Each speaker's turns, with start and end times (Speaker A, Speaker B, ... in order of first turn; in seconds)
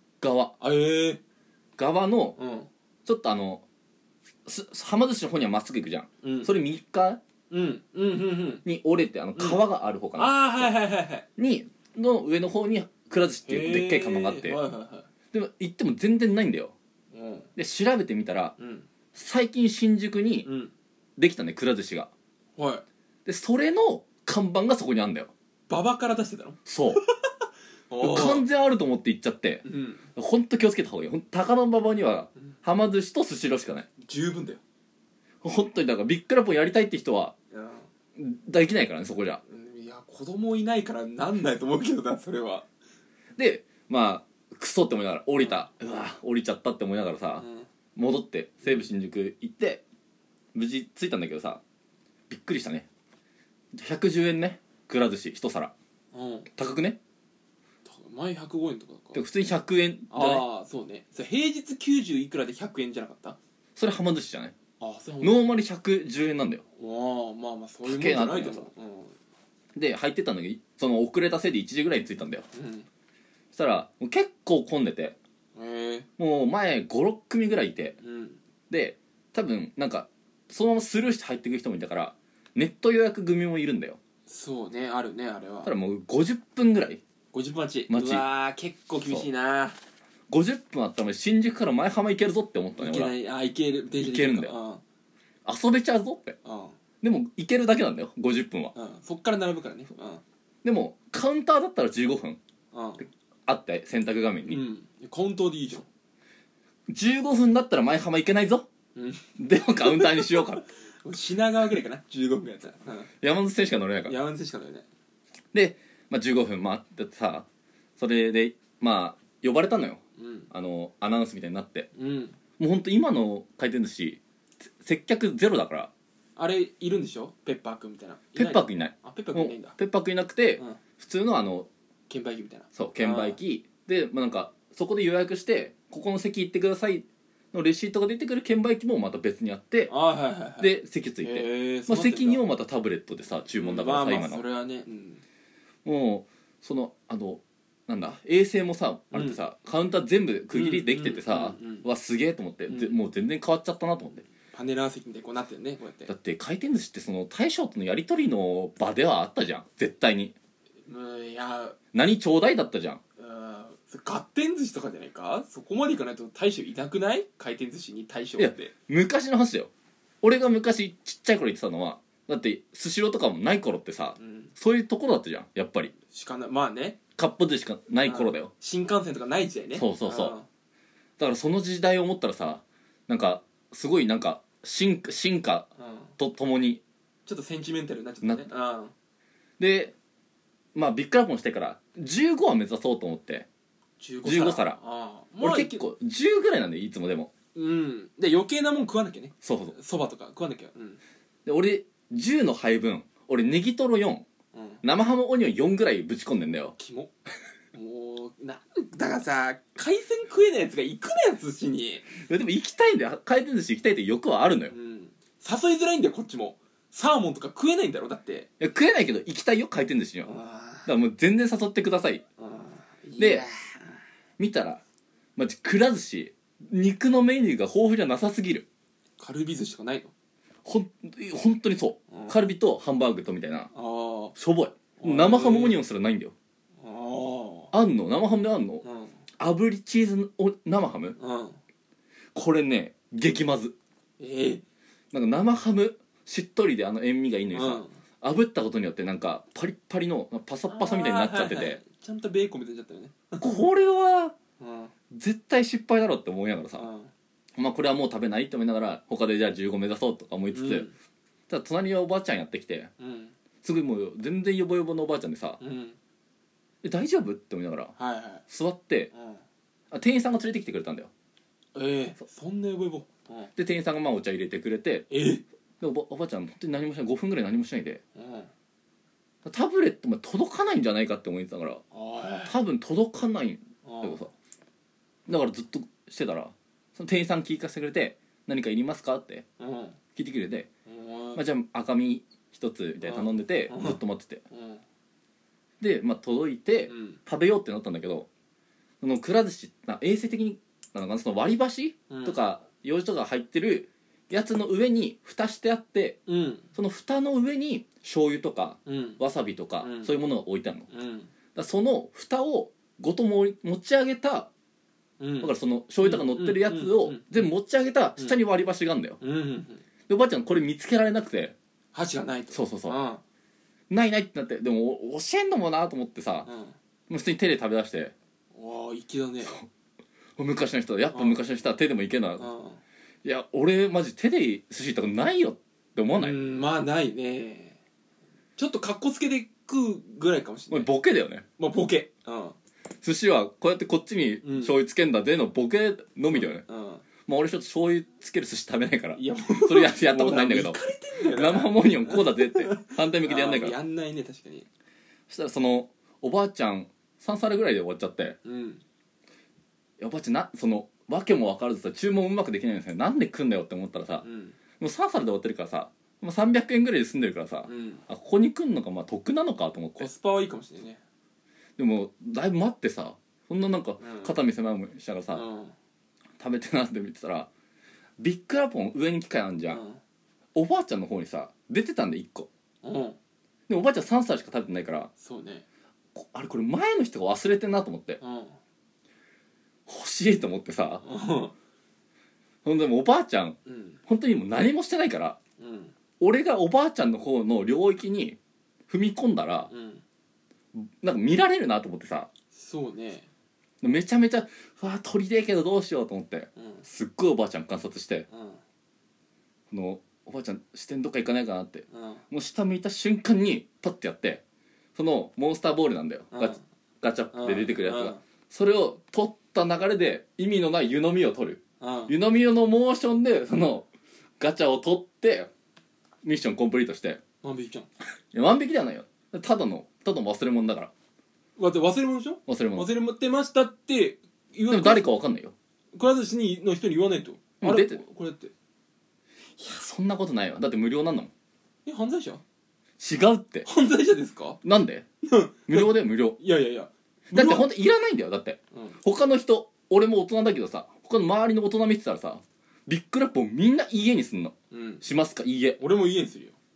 Speaker A: 0.2-0.5, 1.8-2.4, 3.0-3.6, 4.5-7.2, 8.6-10.7, 11.4-14.6, 15.3-16.7, 17.6-18.5, 19.1-20.5, 21.2-22.1, 23.2-25.3, 26.6-27.0, 28.0-33.9, 35.4-37.3, 38.1-39.4, 43.4-47.4, 48.0-49.8, 50.5-51.6, 52.3-52.9, 53.7-55.7, 56.6-57.0, 59.1-60.5, 63.8-64.5, 65.2-66.6, 67.8-68.7, 69.8-72.5, 73.5-75.2, 76.2-78.0, 78.7-84.0, 85.6-87.0, 87.9-88.2, 90.3-93.1, 94.0-94.5, 95.4-96.3, 97.0-98.7, 100.6-102.4, 103.5-104.6, 106.9-108.7, 109.4-110.6, 113.2-114.2, 115.5-117.5, 118.0-120.0, 120.5-121.9, 122.6-124.2, 124.8-125.9, 128.3-131.7, 132.8-139.9, 140.6-144.4, 145.8-154.2, 156.1-160.3, 161.9-163.0, 168.4-169.7, 170.2-175.9, 177.2-178.5, 179.7-180.3, 181.2-186.8, 188.2-188.5, 189.6-189.9, 190.8-193.5, 194.2-194.8, 195.4-197.3, 199.4-199.8, 201.4-204.2, 204.8-206.8, 212.1-214.7, 218.6-220.3, 220.8-222.2, 223.2-223.4, 224.4-224.8, 225.3-228.7, 230.6-233.7, 234.3-236.3, 237.7-238.8, 239.4-241.2, 242.3-243.8, 245.1-251.8, 253.4-254.3, 255.1-256.9, 257.5-260.9, 261.5-262.9, 263.6-265.6, 266.8-267.9, 268.5-269.1, 269.9-271.1, 273.6-275.1, 275.8-278.0, 279.4-281.8, 282.4-284.3, 285.3-289.4, 290.1-290.7, 291.3-294.4, 295.8-298.3, 299.0-306.2, 306.8-310.9, 311.5-314.5, 315.4-319.2, 320.1-321.6, 322.5-323.0, 323.9-326.5, 327.1-328.1, 330.4-332.5, 333.2-336.5, 340.7-341.4, 343.0-346.6, 347.2-353.8, 355.3-358.4, 360.0-364.2, 364.8-370.1, 371.8-375.4, 376.4-377.5, 378.2-379.8, 380.5-382.5, 383.7-385.1, 386.1-388.2, 389.9-391.0, 392.6-395.4, 396.2-398.4, 398.9-399.7, 400.7-402.3, 403.8-408.3, 409.7-414.4, 415.0-423.9, 424.4-425.5, 426.2-427.2, 428.3-430.9, 432.5-432.9, 434.7-435.5, 437.6-438.0, 439.6-441.3, 443.0-443.7, 444.6-445.0, 445.7-446.4, 447.3-455.8
Speaker B: 0.6-1.2, 2.4-2.7, 6.2-6.5, 7.5-8.6, 9.3-9.6, 10.2-11.2, 13.4-15.1, 17.1-17.5, 18.6-18.9, 20.4-20.7, 22.6-22.8, 25.7-27.3, 27.9-28.4, 29.6-30.1, 34.0-34.6, 37.5-37.9, 39.5-42.6, 47.4-47.7, 56.1-56.5, 57.8-59.2, 60.1-63.4, 64.8-65.4, 66.8-69.1, 72.5-72.9, 75.5-76.1, 78.0-78.4, 84.3-85.7, 87.3-89.8, 92.8-94.8, 96.4-96.8, 98.7-100.2, 102.7-103.0, 104.5-105.9, 108.9-113.1, 114.0-114.8, 120.2-120.5, 121.9-122.4, 126.3-129.8, 132.1-133.4, 139.9-140.7, 141.2-142.4, 143.6-145.2, 149.1-149.4, 150.5-151.9, 152.7-153.0, 154.5-156.1, 160.8-161.8, 163.2-168.7, 174.2-174.5, 176.1-177.0, 178.0-180.5, 185.8-186.1, 187.2-188.9, 194.0-195.8, 197.5-201.0, 204.5-204.8, 206.8-207.1, 207.7-212.1, 214.7-218.5, 220.2-220.9, 222.4-224.0, 229.2-230.1, 232.1-232.4, 233.7-234.3, 235.0-235.8, 236.8-237.7, 238.8-239.2, 241.2-241.6, 244.2-244.6, 247.5-247.9, 250.7-253.6, 254.6-254.9, 256.8-257.1, 260.5-260.9, 263.0-263.3, 265.6-266.0, 267.9-268.4, 269.1-269.4, 271.8-273.5, 275.1-275.4, 278.1-278.5, 281.9-282.5, 283.8-284.2, 289.6-290.0, 290.9-291.4, 293.0-294.0, 294.5-294.8, 296.9-297.2, 302.1-302.4, 306.3-306.7, 308.9-309.2, 309.8-310.2, 310.9-311.3, 315.2-317.5, 319.2-319.8, 321.9-323.2, 326.4-326.8, 328.5-329.6, 331.1-331.4, 332.4-332.8, 336.1-337.8, 338.6-340.9, 341.6-342.6, 344.4-344.8, 346.3-347.0, 349.1-354.7, 358.4-358.8, 364.2-364.6, 367.6-368.0, 370.0-371.0, 374.0-374.4, 375.3-375.7, 379.7-380.0, 382.8-383.2, 385.2-385.6, 388.2-388.6, 391.0-391.5, 393.6-394.0, 395.6-395.9, 399.7-400.0, 402.5-403.3, 406.6-406.9, 408.3-408.6, 411.9-412.2, 416.3-416.6, 417.3-418.2, 421.8-422.1, 427.4-427.9, 431.6-435.1, 435.9-438.5, 441.9-442.4, 443.6-444.6, 445.2-447.7, 448.7-449.0, 454.7-455.0, 455.8-456.6